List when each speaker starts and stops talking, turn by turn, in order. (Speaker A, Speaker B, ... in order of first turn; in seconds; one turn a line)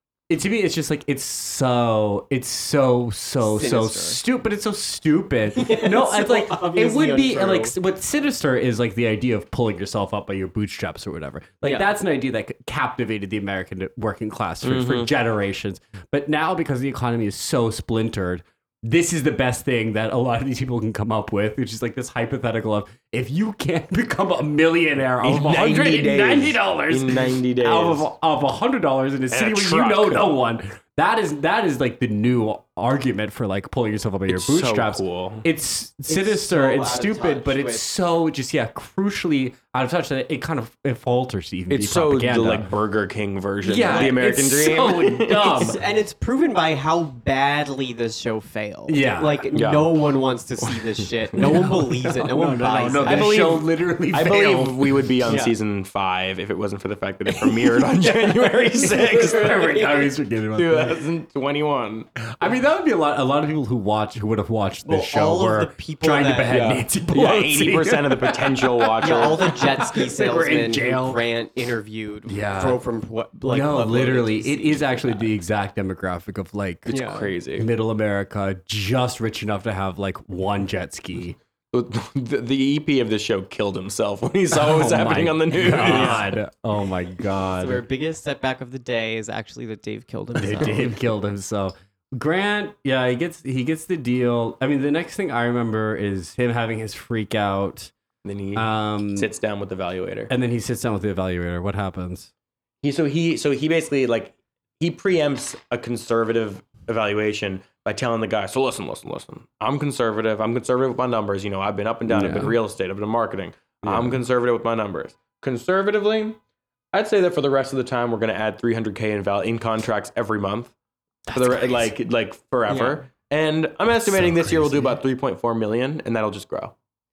Speaker A: 0.3-42.7
Speaker B: 3.4-4.2
Speaker B: 5.5-7.8
Speaker B: 11.6-11.9
Speaker C: 14.6-15.1
Speaker C: 25.2-28.1
Speaker C: 29.3-30.3
Speaker C: 34.3-35.5
Speaker B: 36.1-37.9
Speaker C: 41.7-45.8
Speaker A: 43.6-45.8
Speaker B: 43.9-44.2
Speaker B: 45.5-53.4
Speaker A: 48.9-49.5
Speaker C: 49.5-50.0
Speaker A: 51.4-55.0
Speaker C: 53.0-60.0
Speaker B: 55.2-55.5
Speaker A: 58.8-61.1
Speaker C: 60.5-62.1
Speaker A: 62.4-71.2
Speaker B: 64.8-66.6
Speaker C: 66.5-69.5
Speaker B: 69.0-75.3
Speaker A: 72.3-72.8
Speaker A: 73.5-77.0
Speaker C: 76.9-77.7
Speaker B: 76.9-77.3
Speaker A: 77.5-81.4
Speaker C: 81.7-86.3
Speaker A: 84.5-87.8
Speaker B: 85.8-86.3
Speaker B: 87.6-90.9
Speaker A: 90.4-97.9
Speaker C: 98.2-100.3
Speaker A: 98.5-99.3
Speaker A: 100.3-102.3
Speaker C: 102.8-116.4
Speaker A: 112.1-112.6
Speaker A: 113.8-114.2
Speaker C: 116.9-120.7
Speaker A: 121.3-121.9
Speaker C: 121.3-126.7
Speaker B: 122.7-123.0
Speaker A: 124.0-125.0